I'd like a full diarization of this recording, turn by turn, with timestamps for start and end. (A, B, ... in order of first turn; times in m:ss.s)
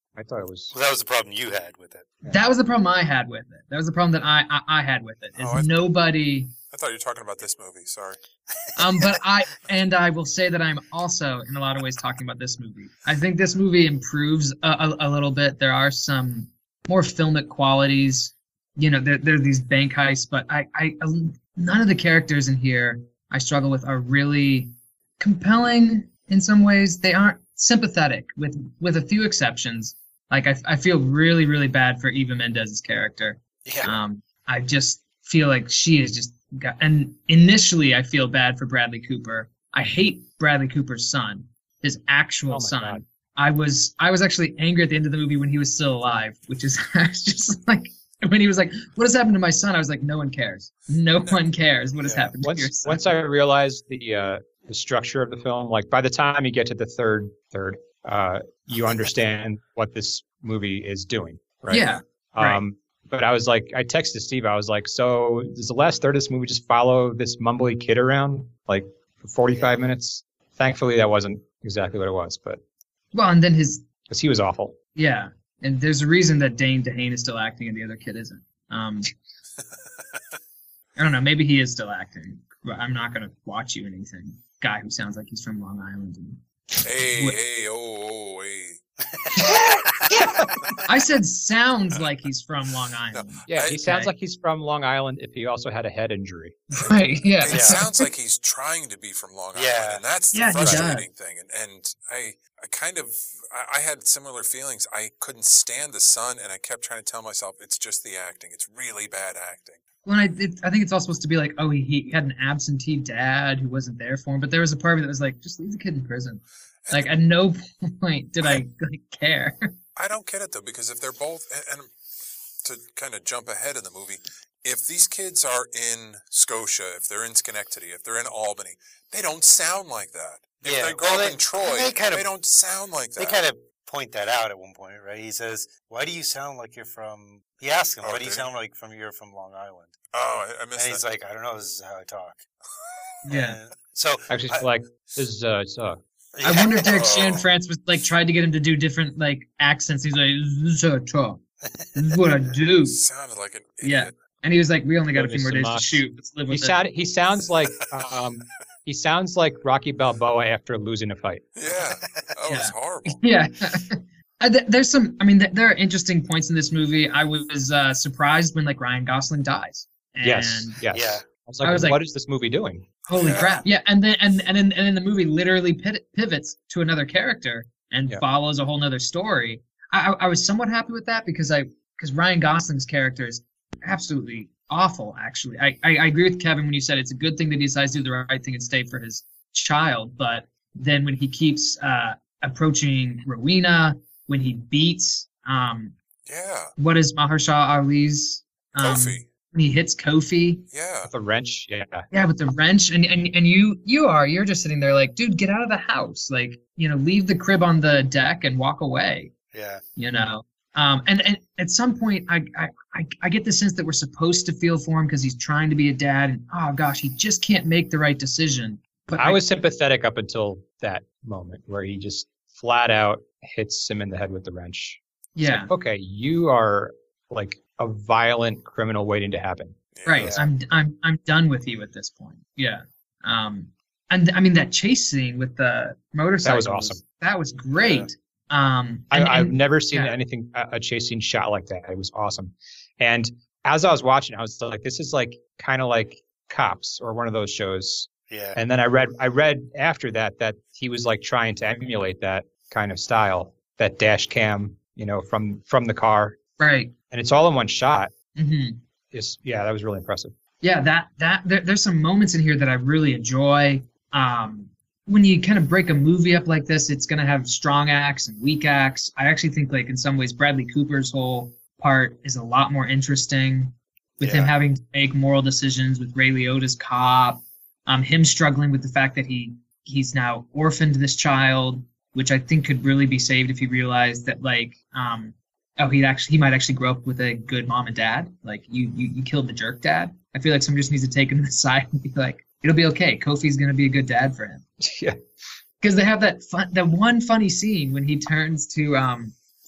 0:00.2-0:00.7 A
0:00.7-0:02.1 B
0:02.3-0:06.5 C
0:05.4-0:05.8 D
0:06.7-0:08.2 D
0:08.8-0:53.1 C
0:33.6-0:34.0 B
0:42.5-0:43.0 A
0:52.0-0:52.3 B
0:52.4-1:12.6 A
1:01.7-1:02.6 C
1:13.1-1:13.8 C
1:14.1-1:14.8 A
1:15.0-1:19.1 C
1:21.0-1:26.4 C
1:26.8-1:28.8 D
1:27.0-1:27.4 C
1:29.1-1:30.1 B
1:29.3-1:34.1 C
1:33.1-1:33.8 D
1:33.5-1:36.6 A
1:36.7-1:38.1 C
1:36.8-1:49.8 D
1:37.5-1:37.8 B
1:39.5-1:40.0 B
1:40.3-1:41.0 C
1:40.6-1:40.9 A
1:50.0-1:59.7 C
1:56.8-1:57.1 D
2:00.0-2:01.9 D
2:02.6-2:13.4 D
2:10.6-2:12.3 B
2:13.2-2:19.9 B
2:18.0-2:18.5 D
2:20.1-2:21.0 D
2:20.7-2:22.4 B
2:23.2-2:23.6 C
2:23.3-2:24.7 B
2:24.3-2:26.0 A
2:26.4-2:27.0 B
2:26.4-2:31.4 C
2:26.8-2:27.4 D
2:31.7-2:32.2 B
2:31.9-2:33.0 C
2:32.8-2:34.1 D
2:33.8-2:36.8 C
2:35.1-2:41.4 A
2:41.6-2:43.2 D
2:41.7-2:42.3 B
2:42.5-2:50.8 C
2:50.2-2:52.9 A
2:50.9-2:51.2 B
2:51.6-2:52.0 C
2:53.1-3:15.9 C
2:53.1-2:53.6 D
3:16.2-3:16.7 D
3:16.8-3:20.6 C
3:18.8-3:19.2 D
3:20.7-3:21.1 D
3:21.0-3:22.1 A
3:22.1-3:29.3 C
3:29.5-3:29.8 B
3:30.0-3:39.4 C
3:39.2-3:49.7 A
3:45.3-3:45.7 C
3:49.9-3:50.4 D
3:50.0-4:00.2 C
3:50.1-3:50.4 B
3:56.4-3:57.0 A
3:57.8-3:58.1 B
3:59.1-4:16.4 A
4:08.3-4:08.6 B
4:16.6-4:16.9 C
4:17.1-4:18.1 A
4:18.4-4:18.8 C
4:19.1-4:20.3 A
4:20.6-4:54.6 C
4:34.2-4:34.6 B
4:54.8-4:55.2 A
4:55.8-4:59.3 C